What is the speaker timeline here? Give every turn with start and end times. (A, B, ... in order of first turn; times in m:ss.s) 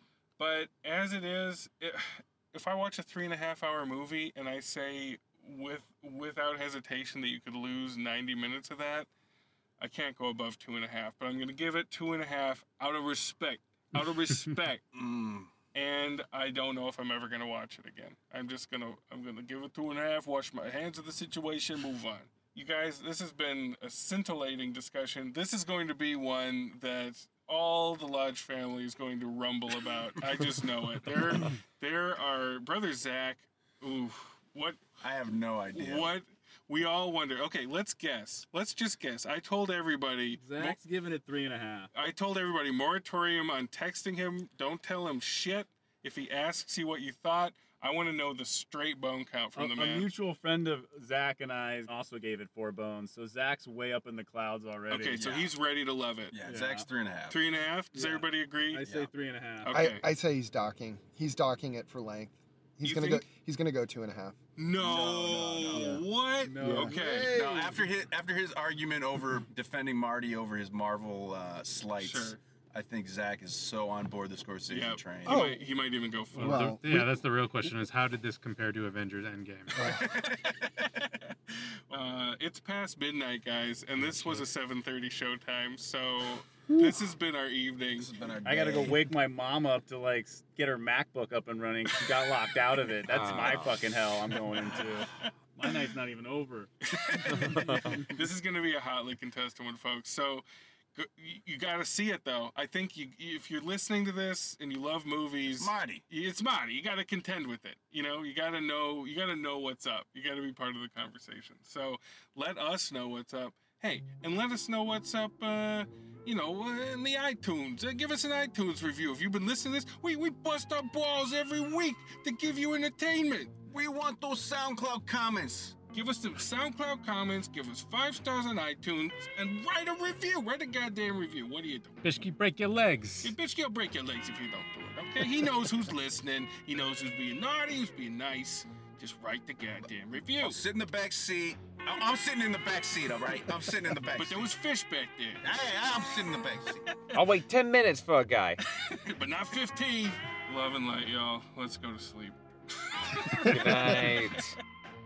0:00.4-0:09.1 A
0:09.8-0:14.8 A
0:14.9-0:15.5 B
0:15.7-0:34.8 A
0:35.0-0:36.1 B
0:35.7-0:40.8 A
0:40.4-0:41.9 C
0:41.9-0:50.1 A
0:49.5-0:55.2 C
0:54.9-0:56.3 A
0:55.1-0:55.5 B
0:56.3-0:57.4 B
0:56.4-0:56.9 C
0:57.3-0:58.8 A
0:57.9-0:59.8 C
0:58.8-0:59.1 B
0:59.6-1:00.0 A
0:59.7-1:04.3 D
1:02.8-1:03.2 A
1:04.6-1:07.4 A
1:04.8-1:06.0 B
1:05.8-1:07.8 C
1:06.6-1:07.0 D
1:07.2-1:15.5 B
1:12.0-1:12.4 A
1:14.7-1:16.8 A
1:15.3-1:15.6 D
1:16.3-1:17.2 D
1:16.4-1:20.0 E
1:19.7-1:20.0 D
1:20.0-1:20.7 B
1:21.9-1:28.1 A
1:24.1-1:24.4 E
1:28.0-1:29.0 B
1:28.4-1:36.7 C
1:33.1-1:33.8 F
1:36.9-2:03.5 A
1:37.4-1:38.1 C
1:45.5-1:46.0 B
2:03.7-2:05.8 B
2:05.9-2:12.0 A
2:12.0-2:13.3 E
2:13.2-2:20.6 A
2:20.4-2:24.5 B
2:24.1-2:25.6 A
2:25.4-2:26.9 B
2:27.1-2:28.6 F
2:28.8-2:34.1 A
2:33.4-2:34.6 F